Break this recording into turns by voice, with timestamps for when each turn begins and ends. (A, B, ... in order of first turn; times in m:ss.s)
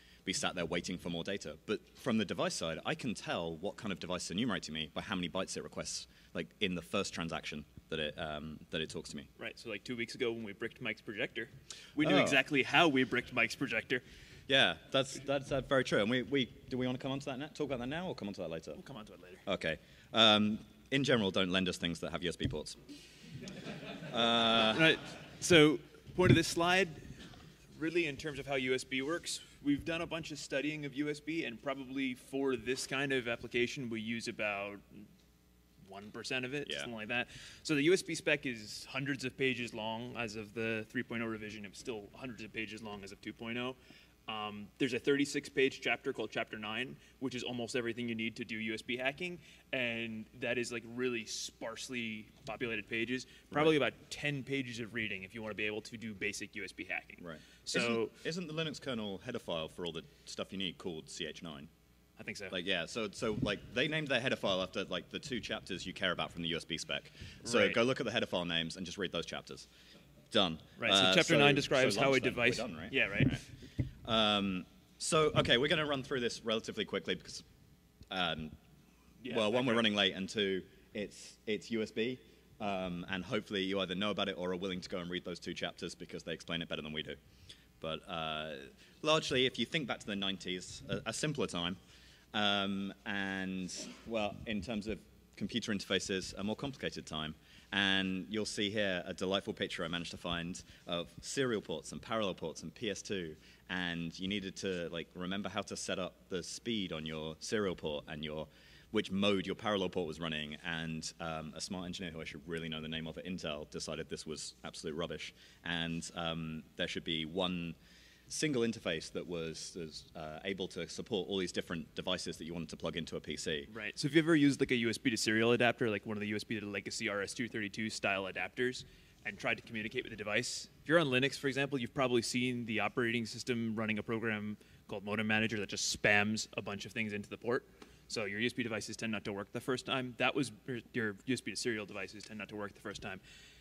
0:00.2-0:09.3 A
0:09.4-0:14.0 B
0:12.0-0:12.4 A
0:14.5-0:18.8 A
0:18.8-0:19.4 B
0:19.4-0:22.8 A
0:24.1-0:24.9 A
0:24.7-0:35.1 B
0:35.8-0:58.2 B
0:57.2-1:01.7 A
1:02.2-1:02.5 B
1:02.5-1:09.7 A
1:07.4-1:07.8 B
1:10.3-1:13.4 A
1:10.8-1:13.4 B
1:14.0-1:17.5 A
1:18.1-1:18.5 A
1:19.2-1:19.8 B
1:19.3-1:27.2 A
1:27.8-1:31.8 A
1:32.3-1:57.8 A
1:58.3-2:03.7 A
2:03.7-2:23.2 B